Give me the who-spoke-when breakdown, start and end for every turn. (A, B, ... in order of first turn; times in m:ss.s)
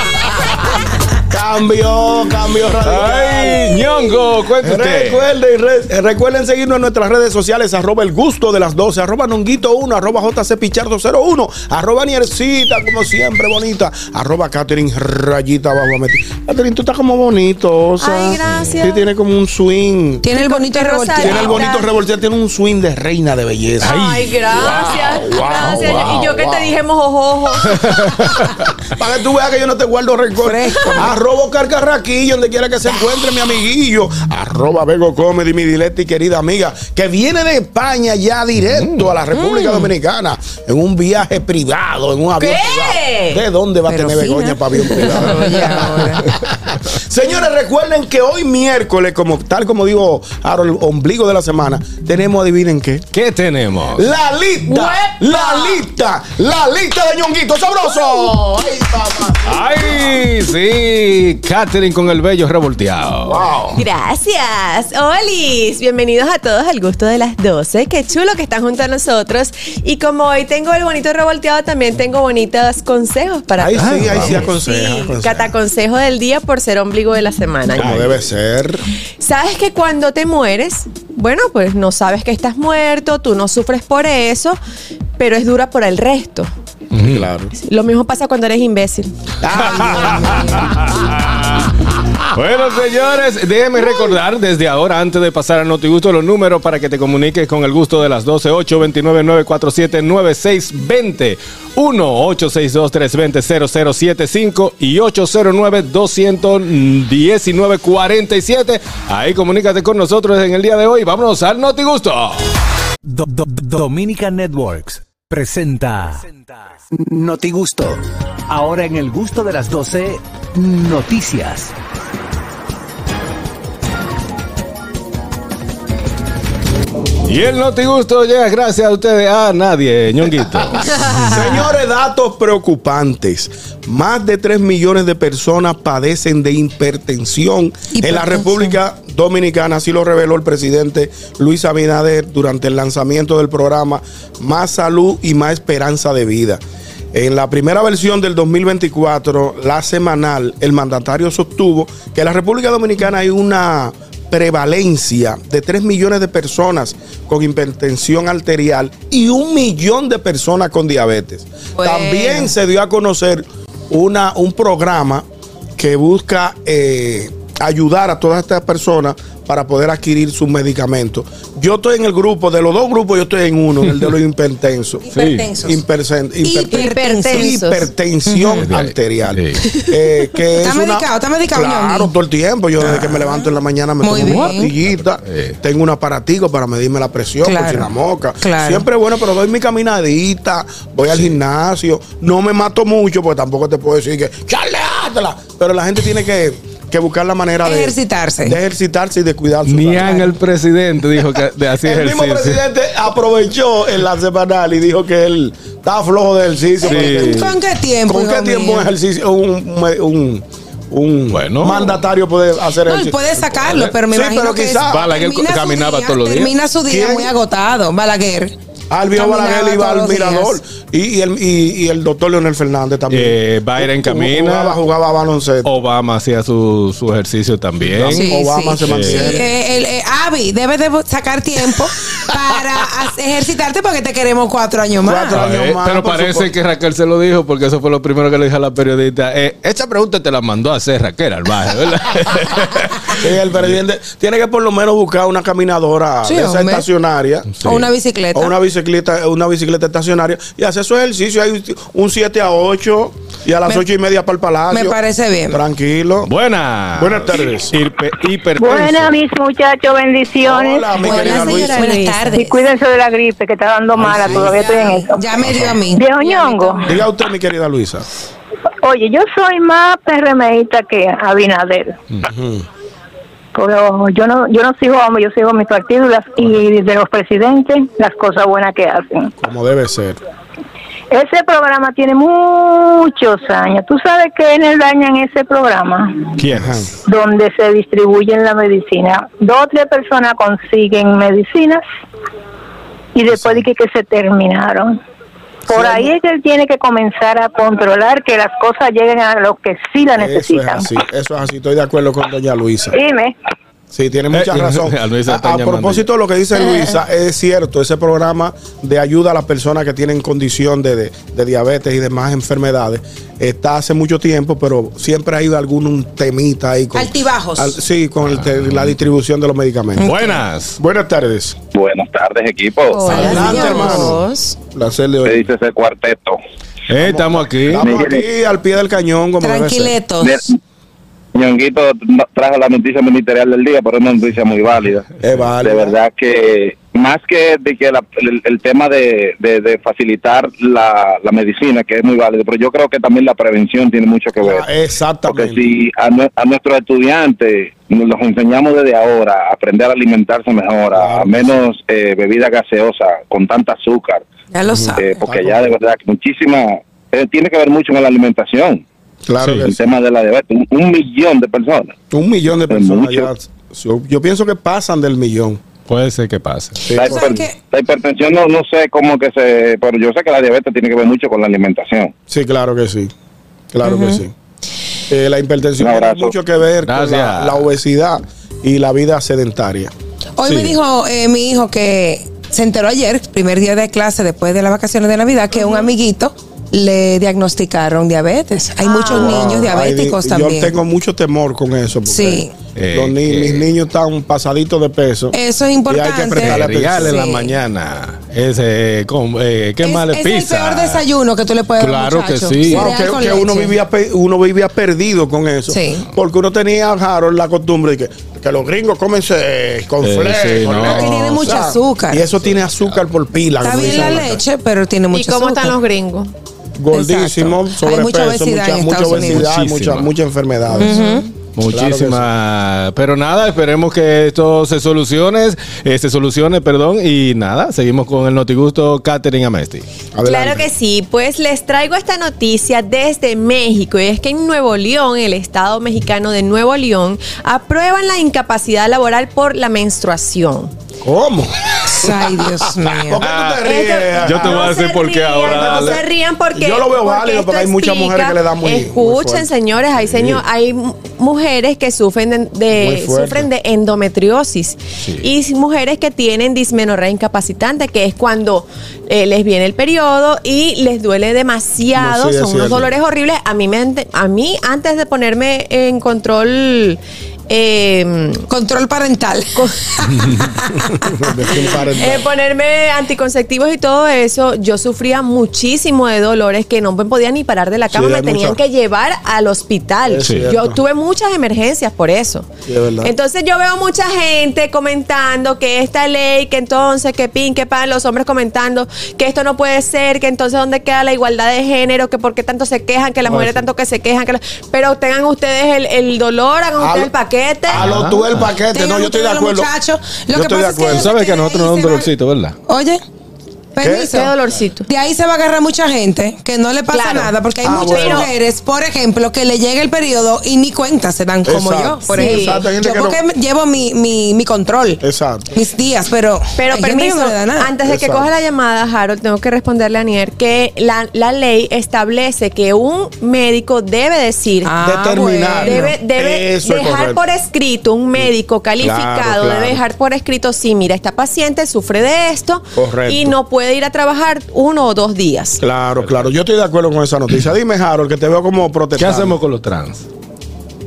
0:01.3-0:03.9 A
0:02.8-0:05.2 B
0:04.6-0:20.2 A
0:18.0-0:19.0 C
0:18.4-0:18.8 B
0:20.2-0:21.7 D
0:20.3-0:21.8 C
0:21.2-0:26.8 A
0:23.8-0:27.9 C
0:23.8-0:25.0 B
0:25.5-0:26.3 B
0:27.6-0:28.5 B
0:28.9-0:53.1 A
0:30.4-0:31.1 D
0:38.8-0:39.1 B
0:39.3-0:39.9 D
0:42.4-0:43.4 C
0:43.9-0:46.3 D
0:53.1-0:54.1 B
0:54.0-1:00.2 A
0:54.7-0:55.8 C
0:59.5-1:03.5 B
1:03.2-1:03.8 A
1:03.8-1:18.1 C
1:13.6-1:15.5 A
1:13.8-1:14.5 B
1:17.8-1:18.8 A
1:17.8-1:18.1 B
1:19.2-1:24.6 C
1:25.2-1:26.5 C
1:26.9-1:27.3 B
1:27.0-1:27.5 A
1:27.6-1:29.1 C
1:29.4-1:30.8 A
1:29.5-1:31.7 B
1:32.3-1:52.5 B
1:53.1-1:56.4 E
1:56.9-2:01.7 E
2:07.2-2:11.1 B
2:11.2-2:26.6 A
2:17.9-2:18.8 D
2:27.1-2:45.2 A
2:41.8-2:42.5 D
2:45.8-2:55.1 A
2:55.0-2:55.8 D
2:55.1-2:55.5 B
2:55.6-3:20.3 A
2:56.4-2:57.6 D
2:56.7-2:57.9 C
2:58.3-2:58.6 D
2:58.6-2:59.6 B
3:00.6-3:02.1 D
3:02.8-3:03.4 D
3:04.0-3:04.7 D
3:04.2-3:05.6 B
3:07.4-3:07.9 D
3:08.4-3:08.9 D
3:17.6-3:18.6 D
3:19.7-3:22.6 B
3:21.8-3:27.5 A
3:26.8-3:28.9 D
3:26.8-3:27.6 B
3:28.1-3:33.2 A
3:31.3-3:31.9 B
3:32.9-3:38.5 D
3:33.6-3:33.9 B
3:34.1-3:35.1 A
3:34.8-3:36.5 B
3:36.9-3:37.3 A
3:38.9-3:45.7 A
3:39.2-3:40.6 D
3:43.1-3:44.8 B
3:45.6-3:48.2 B
3:47.8-3:49.5 A
3:48.1-3:55.4 D
3:48.9-3:49.4 B
3:55.0-3:56.5 A
3:55.3-4:03.8 B
4:03.2-4:07.6 A
4:06.2-4:06.9 D
4:07.5-4:07.9 B
4:07.6-4:08.5 D
4:08.3-4:15.0 A
4:14.7-4:15.6 D
4:15.5-4:16.3 A
4:16.3-4:19.1 B
4:17.0-4:17.8 A
4:18.6-4:21.7 F
4:20.4-4:21.9 A
4:21.0-4:22.6 D
4:21.0-4:22.4 C
4:22.3-4:26.9 F
4:24.0-4:24.5 A
4:24.2-4:27.0 D
4:26.9-4:28.1 A
4:28.8-4:32.0 F
4:32.2-4:32.7 A
4:33.5-4:39.3 F
4:39.4-4:40.2 A
4:41.1-4:46.4 F
4:46.4-4:46.8 B
4:46.5-4:46.9 A
4:47.1-4:51.8 F
4:53.2-4:55.0 F
4:53.3-4:53.6 A
4:55.7-5:01.0 F
4:55.7-4:56.1 A
5:00.2-5:03.0 A
5:02.9-5:03.4 F
5:03.9-5:20.1 A
5:04.3-5:06.1 B
5:17.0-5:17.8 D
5:18.4-5:18.8 B
5:20.0-5:20.4 D
5:20.0-5:20.8 B
5:20.8-5:21.6 A
5:21.8-5:23.6 G
5:22.9-5:24.6 C
5:23.0-5:24.2 A
5:23.1-5:24.1 D
5:24.7-5:25.5 A
5:25.2-5:26.4 G
5:26.9-5:28.0 B
5:26.9-5:30.0 A
5:27.8-5:28.2 G
5:29.4-5:30.4 D
5:31.4-5:35.0 G
5:35.2-5:36.0 A
5:35.6-5:44.7 G
5:44.4-5:45.6 A
5:45.3-5:54.2 G
5:50.9-5:51.5 A
5:54.5-5:55.2 D
5:54.7-5:55.7 A
5:55.0-5:58.8 G
5:59.3-5:59.9 A
5:59.4-5:59.7 B
5:59.7-6:01.9 G
6:02.1-6:05.6 A
6:02.7-6:03.3 G
6:05.9-6:06.9 B
6:06.8-6:07.3 A
6:06.9-6:12.1 G
6:07.0-6:07.6 D
6:12.3-6:13.1 A
6:13.7-6:14.3 A
6:13.8-6:14.2 D
6:15.1-6:19.9 A
6:15.8-6:16.4 G
6:16.8-6:17.6 B
6:20.4-6:30.7 D
6:20.4-6:20.8 A
6:28.8-6:29.6 C
6:29.1-6:35.4 A
6:32.1-6:32.5 D
6:32.8-6:33.7 B
6:35.3-6:37.5 D
6:35.9-6:37.2 A
6:36.4-6:41.0 B
6:39.8-6:43.7 D
6:41.8-6:42.9 B
6:42.7-6:54.4 A
6:45.7-6:46.1 D
6:50.0-6:51.6 B
6:50.8-6:52.2 D
6:52.4-6:53.0 B
6:53.6-6:55.8 D
6:55.1-6:56.3 C
6:56.8-7:01.0 A
6:56.9-6:59.5 D
6:59.2-7:00.1 B
7:00.8-7:01.3 C
7:00.8-7:01.2 D
7:01.6-7:09.9 B
7:01.7-7:02.3 A
7:10.1-7:10.7 A
7:10.2-7:20.7 C
7:21.0-7:24.7 A
7:21.9-7:23.2 D
7:23.2-7:26.0 B
7:23.6-7:48.4 C
7:25.5-7:26.0 A
7:26.5-7:29.5 A
7:30.1-7:30.4 A
7:32.7-7:33.5 A
7:42.0-7:42.9 A
7:48.5-7:50.8 D
7:51.1-7:52.3 A
7:52.0-8:02.5 C
7:57.9-7:58.6 A
8:00.0-8:00.8 A
8:00.2-8:00.5 B
8:02.7-8:03.1 A
8:03.0-8:17.9 C
8:13.3-8:13.5 B
8:16.8-8:17.1 A
8:17.7-8:19.7 A
8:17.7-8:18.5 B
8:18.7-8:22.0 D
8:20.3-8:21.1 A
8:20.9-8:22.6 B
8:22.7-8:23.0 D
8:23.8-8:24.3 D
8:23.8-8:24.1 A
8:23.9-8:24.9 C
8:24.9-8:35.0 D
8:26.9-8:28.3 C
8:27.6-8:28.3 A
8:31.4-8:33.2 A
8:32.1-8:32.6 C
8:35.0-8:35.5 A
8:35.5-8:37.7 D
8:36.6-8:44.7 C
8:37.8-8:38.3 A
8:44.6-8:45.9 D
8:44.8-8:47.2 A
8:45.6-8:55.6 C
8:48.2-8:49.8 A
8:52.8-8:53.4 A
8:55.6-8:59.4 A
8:56.0-8:56.3 B
8:59.0-9:00.0 B